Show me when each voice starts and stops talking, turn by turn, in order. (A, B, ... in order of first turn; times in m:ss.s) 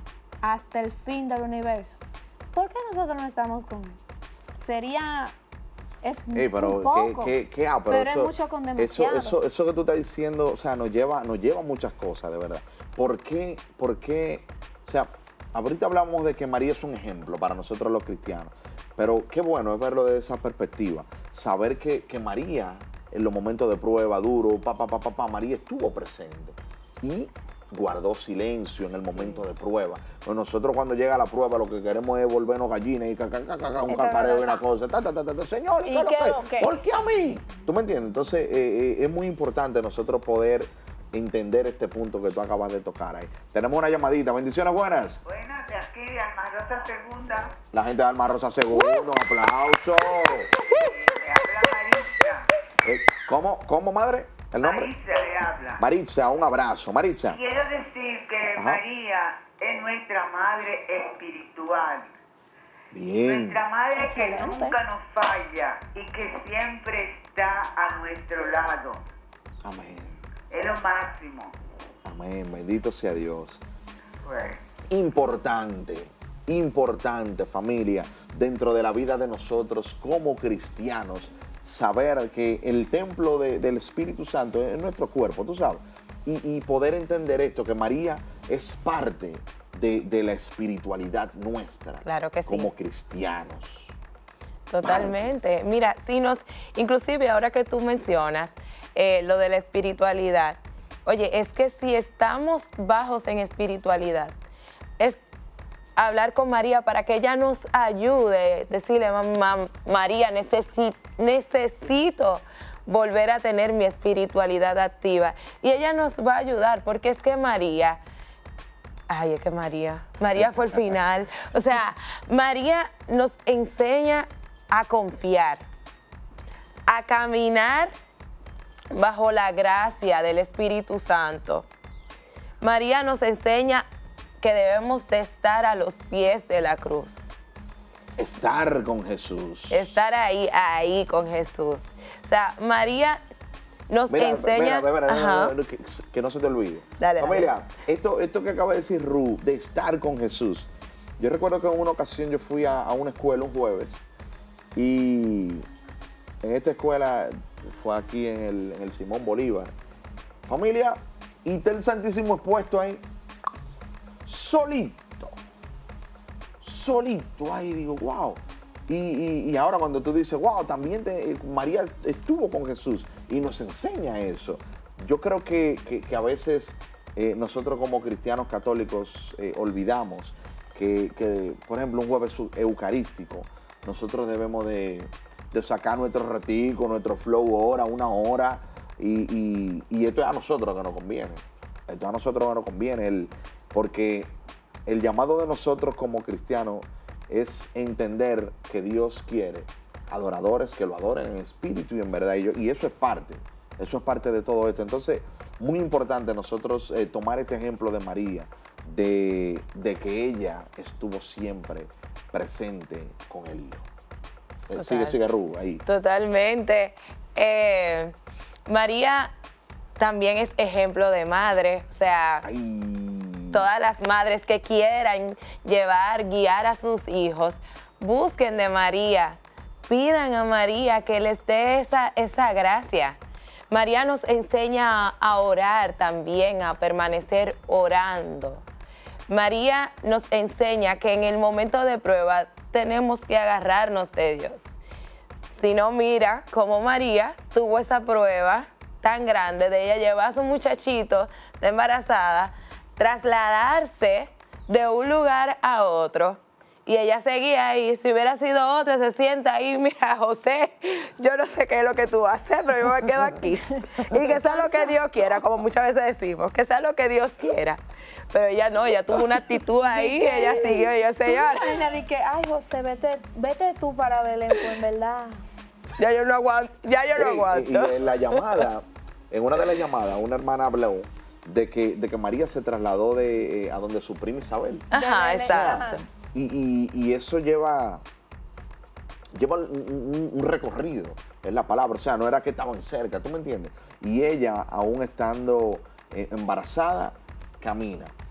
0:00.4-0:02.0 A
0:02.5-0:04.0 A
0:04.6-0:05.4 A
0:06.0-0:07.4 A
0:06.3-0:45.2 B
0:07.9-0:09.4 A
0:33.9-0:34.6 A
0:35.8-0:36.7 A
0:45.3-0:47.5 C
0:47.7-0:50.5 B
0:50.7-0:52.4 C
0:52.8-0:54.9 B
0:54.6-0:55.8 C
0:55.8-0:57.4 B
0:57.3-1:02.1 C
0:58.6-0:58.8 B
1:02.9-1:03.7 B
1:03.2-1:09.0 C
1:03.9-1:04.8 A
1:09.6-1:10.2 B
1:10.5-1:11.5 C
1:12.0-1:13.6 B
1:14.2-1:14.6 C
1:14.9-1:34.0 B
1:32.0-1:32.7 D
1:34.7-1:44.3 D
1:34.8-1:35.3 B
1:46.0-1:58.0 D
1:59.1-2:05.6 D
2:00.4-2:01.3 B
2:06.9-2:07.9 D
2:08.9-2:11.7 D
2:12.6-2:13.8 D
2:14.4-2:17.3 D
2:18.2-2:19.9 B
2:19.7-2:23.2 D
2:23.9-2:25.6 D
2:24.1-2:34.1 B
2:27.0-2:27.5 D
2:34.8-2:35.7 B
2:36.4-2:39.7 B
2:40.5-2:43.0 B
2:44.2-2:45.4 B
2:46.6-3:14.4 B
3:14.9-3:33.9 B
3:34.7-3:35.8 B
3:34.8-3:35.2 D
3:35.9-3:38.2 D
3:38.7-3:39.3 D
3:40.0-3:42.5 D
3:42.4-3:43.7 B
3:43.5-3:53.2 D
3:53.7-3:58.6 D
3:59.3-4:04.8 D
4:05.5-4:27.8 D
4:24.0-4:25.0 A
4:28.3-4:31.9 D
4:29.8-4:35.4 A
4:36.0-4:38.6 D
4:37.2-4:48.0 B
4:44.9-4:46.0 D
4:44.9-4:46.0 A
4:49.3-4:58.2 B